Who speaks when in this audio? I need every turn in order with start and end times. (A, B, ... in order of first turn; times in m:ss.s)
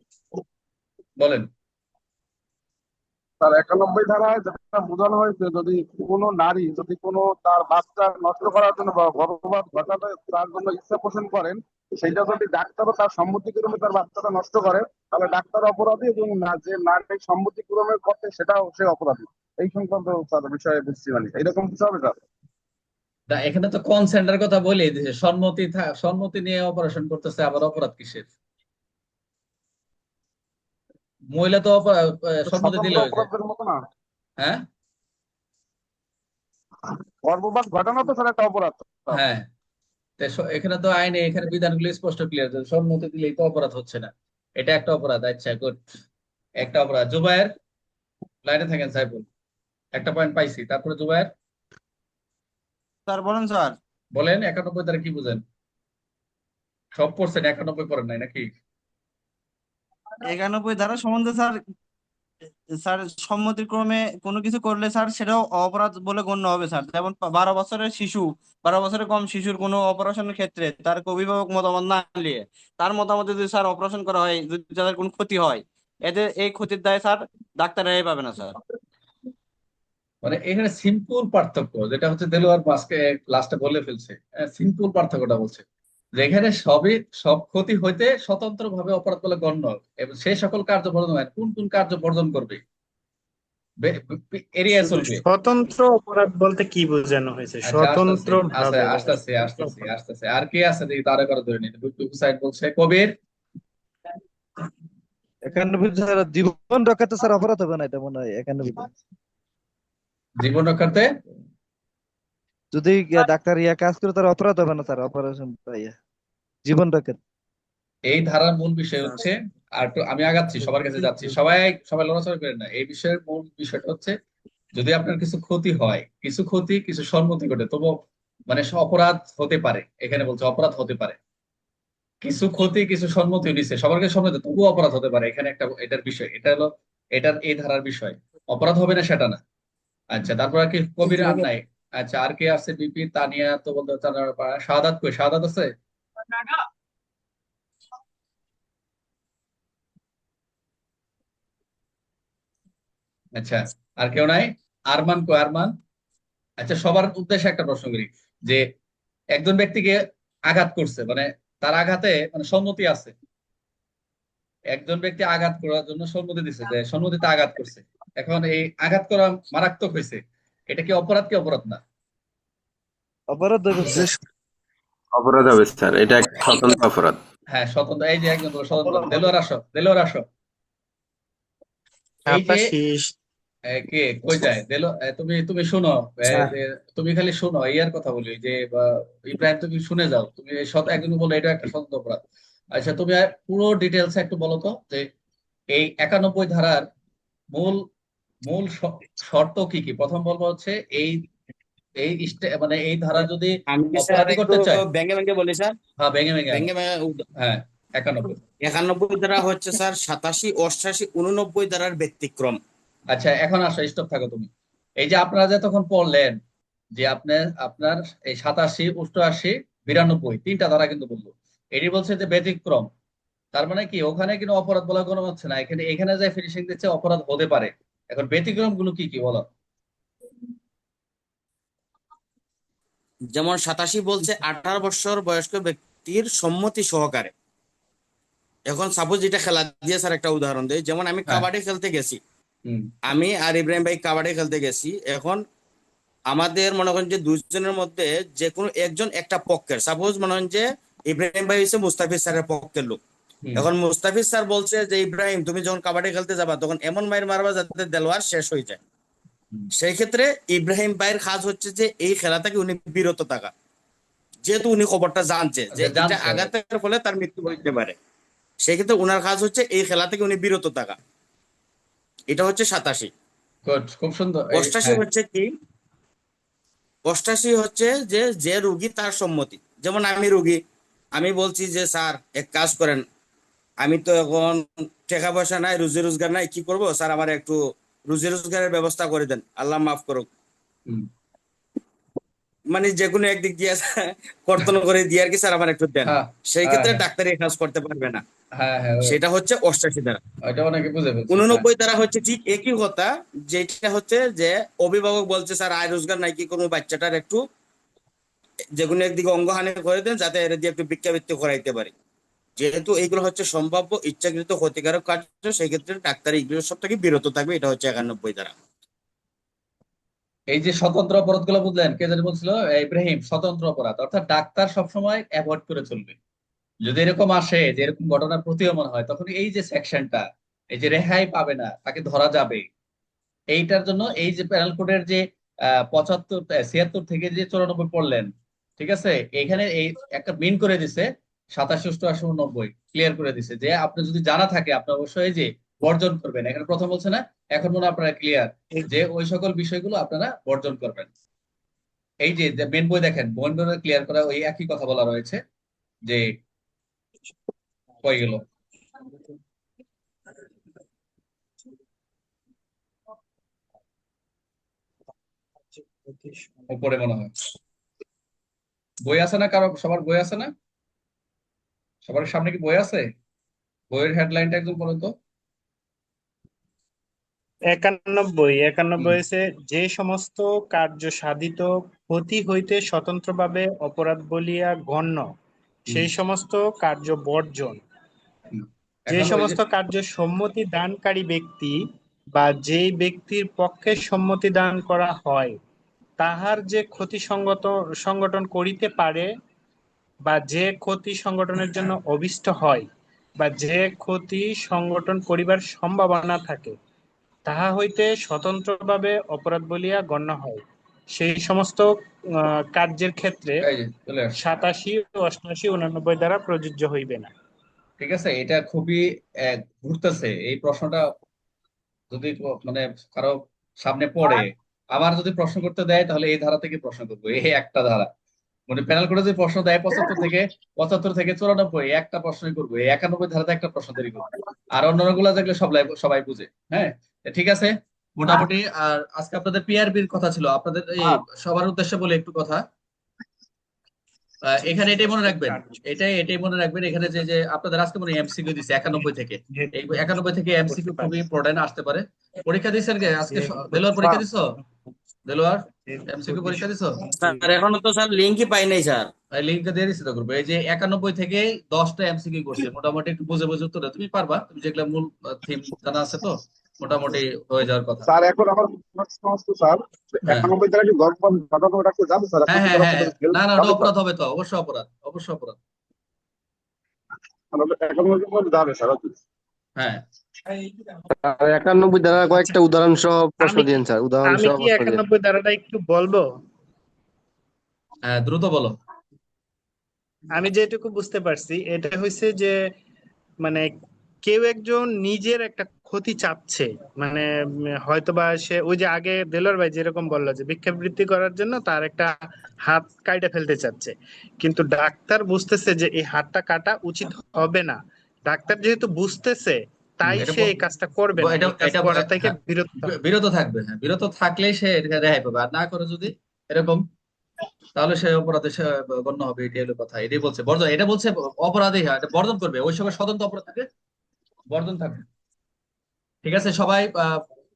0:01.2-0:01.4 A
0:03.4-0:22.2 B
0:23.3-0:28.3 A
0:31.3-0:33.2 A
0:32.5-0:33.8 B
0:37.2-0:39.2 B
0:39.1-0:39.4 A
0:40.2-0:45.8 A
0:46.6-0:47.5 A
0:48.4-0:49.2 A
0:50.0-0:51.3 A
0:53.1-0:53.8 C
0:54.1-0:55.4 A
0:57.0-0:58.4 A
1:00.2-1:01.6 C
1:02.7-1:18.5 C
1:20.2-1:25.6 A
1:26.2-1:32.6 A
1:33.8-1:35.2 A
1:34.8-1:39.9 D
1:37.6-1:43.1 A
1:45.4-1:48.9 E
1:50.4-1:51.1 A
1:52.7-1:56.0 E
1:56.6-1:57.2 E
1:58.1-2:04.1 A
2:04.8-2:07.9 A
2:08.5-2:11.2 A
2:12.2-2:19.4 A
2:20.1-2:25.7 A
2:33.4-2:35.7 A
2:36.6-2:38.6 A
2:39.3-2:40.0 A
2:40.5-2:43.1 A
2:44.7-2:50.2 A
2:50.7-2:51.8 A
2:53.3-2:54.1 E
2:55.1-2:57.2 F
2:57.5-3:00.2 A
2:58.8-2:59.2 E
3:02.2-3:03.1 D
3:02.3-3:02.7 A
3:03.8-3:12.2 A
3:12.8-3:15.1 A
3:15.7-3:16.8 A
3:18.5-3:21.2 A
3:22.0-3:24.8 A
3:23.7-3:25.7 G
3:26.0-3:26.7 A
3:26.5-3:27.2 G
3:27.4-3:28.4 A
3:28.6-3:32.6 G
3:33.1-3:34.5 A
3:35.0-3:36.4 A
3:37.0-3:42.9 A
3:43.5-3:49.4 A
3:53.3-3:57.3 G
3:58.7-4:02.2 G
4:03.1-4:05.4 G
4:06.3-4:13.0 G
4:13.6-4:18.8 G
4:19.8-4:23.5 G
4:24.4-4:28.0 G
4:25.7-4:26.5 A
4:28.6-4:31.0 G
4:32.3-4:33.1 G
4:33.6-4:35.0 A
4:34.5-4:35.5 G
4:37.1-4:40.6 G
4:41.2-4:43.0 G
4:43.8-4:47.6 G
4:48.1-4:50.3 G
4:52.7-4:58.2 G
4:56.0-4:57.0 A
4:58.6-4:59.1 A
4:59.0-5:00.2 G
5:00.4-5:01.6 A
5:01.3-5:07.4 G
5:08.8-5:11.9 G
5:12.6-5:18.5 G
5:20.5-5:26.2 A
5:26.8-5:32.6 A
5:33.5-5:35.2 A
5:35.9-5:51.1 A
5:52.2-5:55.4 A
5:58.0-5:58.4 A
6:05.9-6:06.5 D
6:06.7-6:07.3 A
6:09.0-6:10.5 A
6:12.0-6:13.0 A
6:13.9-6:15.1 A
6:17.7-6:25.2 D
6:25.9-6:27.8 D
6:28.5-6:29.6 A
6:29.1-6:31.8 D
6:32.3-6:35.6 D
6:36.2-6:39.3 D
6:40.3-6:42.9 D
6:43.4-6:46.8 D
6:47.4-6:50.6 D
6:51.1-6:51.8 D
6:52.7-6:53.7 D
6:53.6-6:54.4 A
6:54.3-6:57.3 D
6:58.0-7:01.0 A
7:02.1-7:08.1 A
7:08.7-7:14.2 A
7:14.7-7:22.6 A
7:24.4-7:34.4 A
7:24.7-7:25.8 D
7:29.5-7:30.1 D
7:30.7-7:31.2 D
7:33.2-7:34.2 D
7:35.3-7:37.0 A
7:35.8-7:37.4 D
7:37.1-7:39.1 G
7:39.3-7:48.1 A
7:48.0-7:53.9 B
7:50.2-7:50.5 A
7:52.5-7:55.6 A
7:57.5-7:59.1 B
8:01.1-8:05.0 H
8:02.3-8:02.6 D
8:03.4-8:06.2 D
8:08.0-8:08.7 A
8:10.4-8:12.6 D
8:13.4-8:13.7 D
8:14.2-8:17.3 D
8:17.8-8:22.1 D
8:22.7-8:33.0 D
8:30.1-8:30.5 A
8:31.2-8:36.8 A
8:37.7-8:43.6 A
8:44.5-8:45.0 A
8:46.2-8:47.2 A